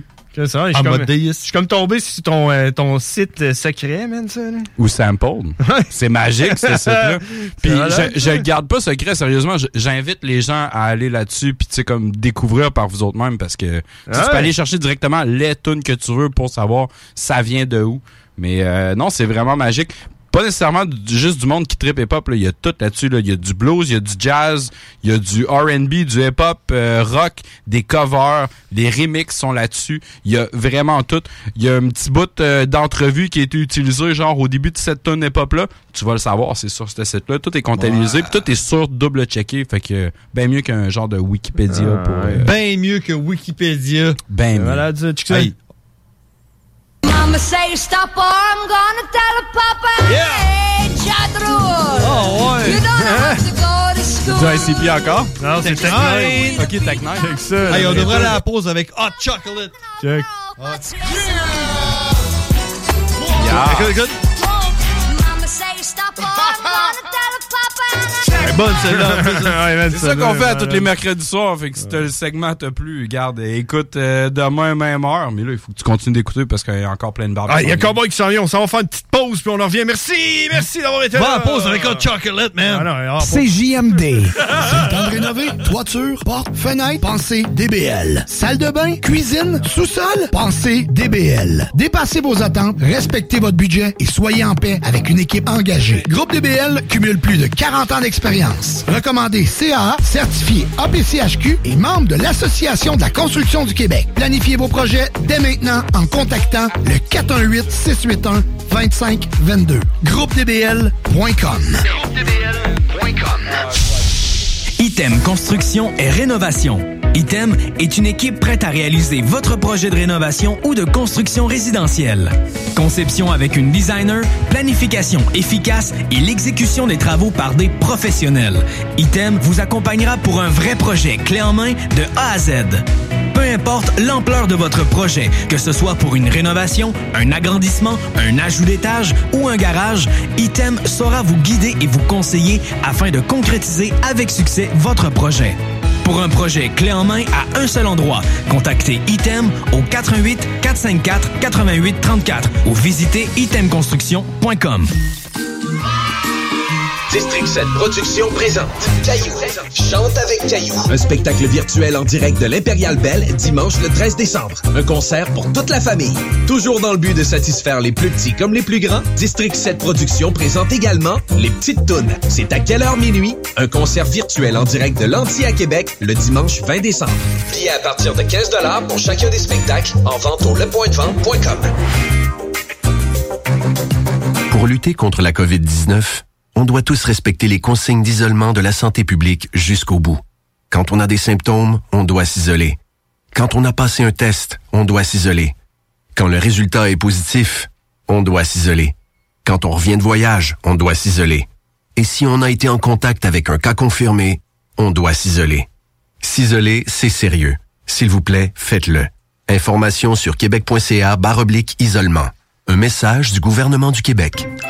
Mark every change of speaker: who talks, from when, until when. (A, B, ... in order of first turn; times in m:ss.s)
0:00.3-0:04.7 A
0:00.7-0:01.4 B
0:04.8-0:42.5 C
0:05.6-0:08.5 A
0:14.1-0:14.5 A
0:37.7-0:38.4 B
0:41.7-0:42.5 A
0:42.4-0:44.2 B
0:44.3-0:44.9 C
0:44.5-0:45.5 A
0:47.0-0:54.9 D
0:50.1-0:50.4 B
0:52.0-0:52.8 B
0:52.6-0:53.4 A
0:54.3-0:54.6 A
0:54.3-0:55.3 C
0:55.4-0:58.4 A
0:55.6-0:56.7 B
0:56.4-0:57.0 D
0:56.6-0:58.1 C
0:57.7-0:59.7 B
1:00.0-1:00.3 A
1:00.2-1:01.6 D
1:00.6-1:00.9 B
1:03.4-1:04.1 B
1:03.4-1:04.0 C
1:04.3-1:08.3 D
1:08.4-1:09.6 B
1:08.8-1:10.9 A
1:09.9-1:18.0 C
1:17.4-1:22.1 A
1:21.1-1:22.9 B
1:22.6-1:24.8 A
1:23.3-1:51.9 E
1:54.8-2:34.9 F
2:37.1-3:01.7 G
3:04.5-3:12.8 H
3:13.3-3:15.5 H
3:16.1-3:18.9 H
3:19.4-3:25.7 H
3:26.2-3:34.5 H